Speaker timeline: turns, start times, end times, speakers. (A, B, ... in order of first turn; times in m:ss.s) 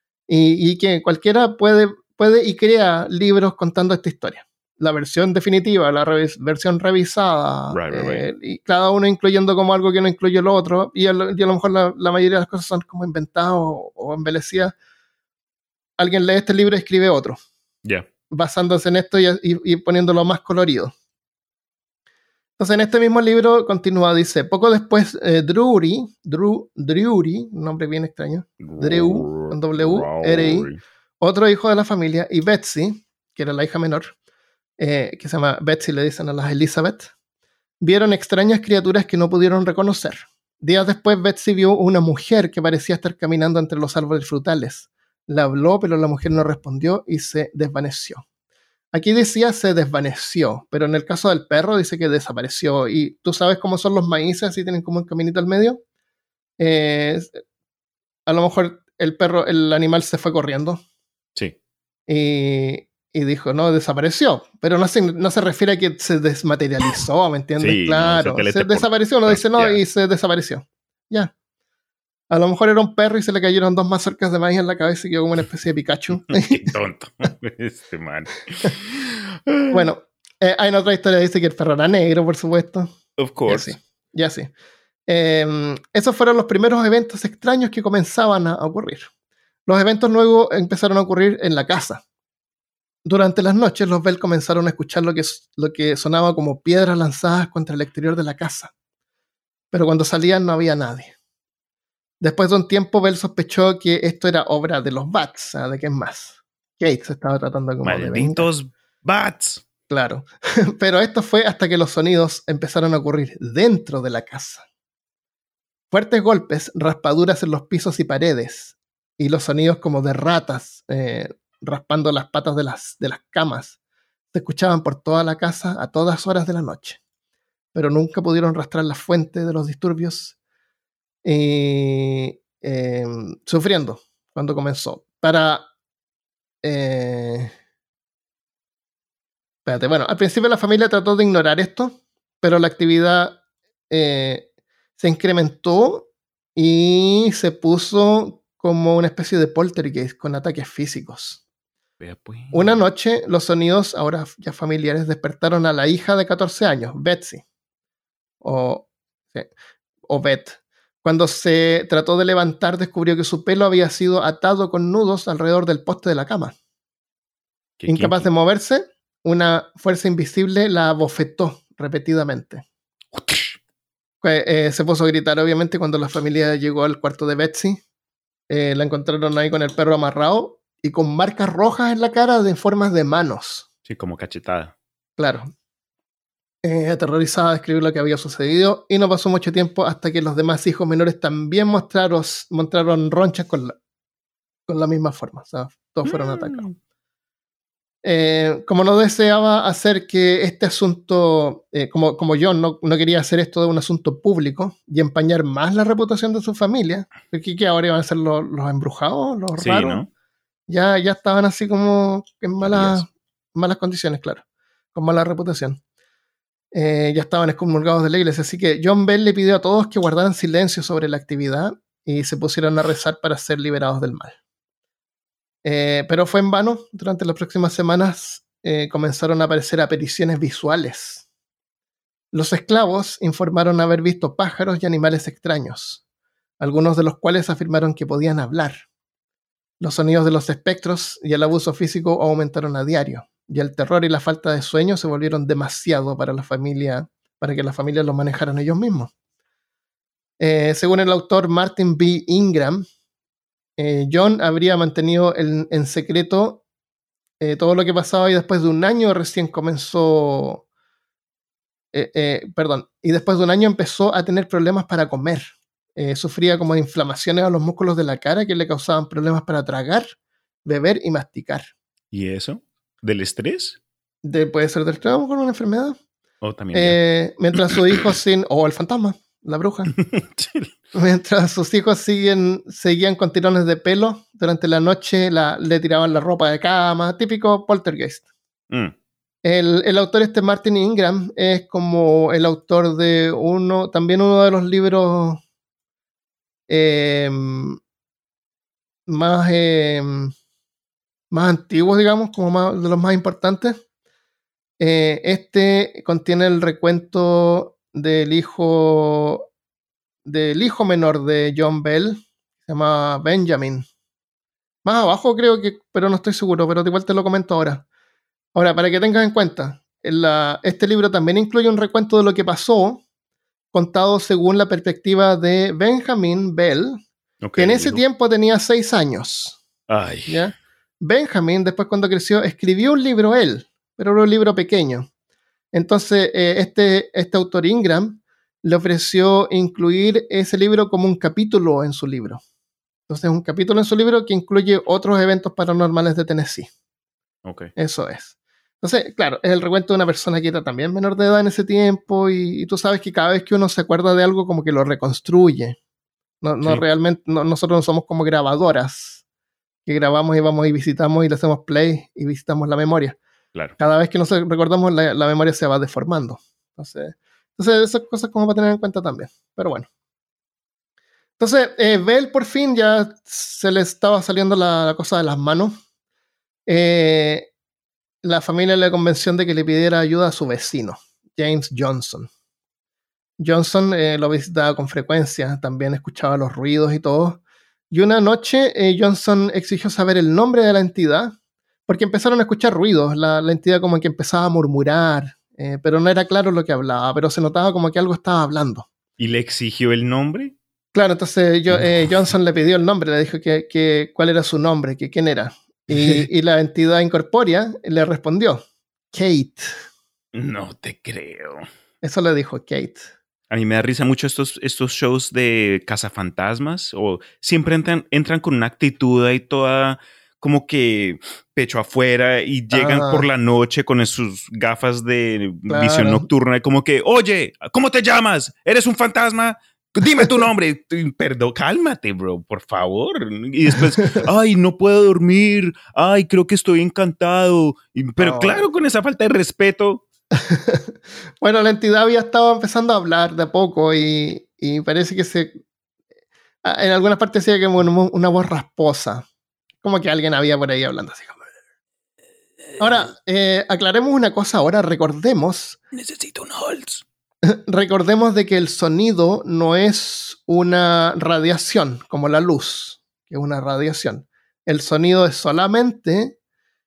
0:00.3-0:14.8 A
0:07.7-0:08.2 B
0:16.0-0:17.4 A
0:18.3-0:20.9 A
0:22.6-0:34.1 A
0:28.6-0:30.8 B
0:34.8-0:37.1 A
0:37.8-0:48.2 A
0:48.9-0:55.8 A
0:56.6-0:57.4 A
0:58.3-1:00.8 A
1:02.1-1:11.3 A
1:07.6-1:09.8 B
1:12.3-1:16.7 A
1:16.1-1:19.8 B
1:19.7-1:22.9 A
1:23.2-1:23.8 B
1:23.5-1:24.5 A
1:25.1-1:29.1 A
1:29.7-1:32.0 A
1:33.0-1:38.7 A
1:39.7-1:41.1 A
1:42.2-1:48.5 A
1:47.8-1:49.6 B
1:49.9-1:54.6 A
1:55.9-2:03.8 A
2:04.3-2:07.0 A
2:07.7-2:10.4 A
2:11.2-2:15.7 A
2:16.6-2:17.5 A
2:19.6-2:24.5 A
2:25.0-2:31.4 A
2:32.0-2:32.8 B
2:32.5-2:37.4 A
2:38.4-2:39.5 A
2:40.1-2:46.6 A
2:47.8-2:48.3 B
2:47.9-2:52.6 A
2:53.1-2:53.6 B
2:54.2-2:57.8 A
2:58.5-3:03.7 A
3:03.9-3:04.7 B
3:05.2-3:05.5 A
3:06.6-3:13.8 A
3:14.7-3:16.6 A
3:16.0-3:16.8 B
3:18.0-3:30.0 A
3:29.6-3:30.1 B
3:30.7-3:34.4 A
3:32.6-3:33.0 B
3:34.9-3:35.8 A
3:36.7-3:44.4 A
3:45.6-3:51.3 A
3:52.3-3:56.0 A
3:56.6-3:58.8 A
3:59.8-4:09.1 A
4:10.4-4:12.8 A
4:13.8-4:16.6 A
4:17.4-4:20.6 A
4:21.9-4:30.1 A
4:30.6-4:31.7 A
4:32.1-4:33.8 B
4:34.2-4:36.0 A
4:36.4-4:37.0 B
4:36.7-4:40.0 A
4:40.0-4:40.7 B
4:40.9-4:48.3 A
4:49.4-4:55.4 A
4:56.7-4:57.8 A
4:59.1-5:00.3 A
5:01.3-5:03.8 A
5:04.8-5:09.4 A
5:10.2-5:13.9 A
5:14.8-5:17.8 A
5:18.6-5:23.0 A
5:23.7-5:27.0 A
5:27.4-5:28.0 B
5:27.6-5:29.6 A
5:29.9-5:30.5 B
5:30.3-5:35.1 A
5:35.7-5:42.4 A
5:43.1-5:46.7 A
5:47.4-5:47.7 B
5:47.8-5:55.8 A
5:56.4-5:59.2 A
5:59.9-6:03.2 A
6:03.8-6:09.9 A
6:11.4-6:15.8 A
6:16.7-6:17.5 A
6:18.2-6:22.3 A
6:23.4-6:31.4 A
6:31.9-6:38.9 A
6:39.2-6:40.6 B
6:40.9-6:49.8 A
6:41.7-6:42.0 B
6:50.3-6:51.7 B
6:52.0-6:53.1 A
6:53.5-7:20.0 B
7:02.7-7:03.3 A
7:05.7-7:06.3 A
7:10.0-7:10.5 A
7:13.8-7:14.2 A
7:18.2-7:18.7 A
7:20.4-7:25.5 A
7:26.6-7:29.3 A
7:29.8-7:31.4 A
7:32.8-7:35.8 A
7:35.9-7:37.0 B
7:37.5-7:46.4 A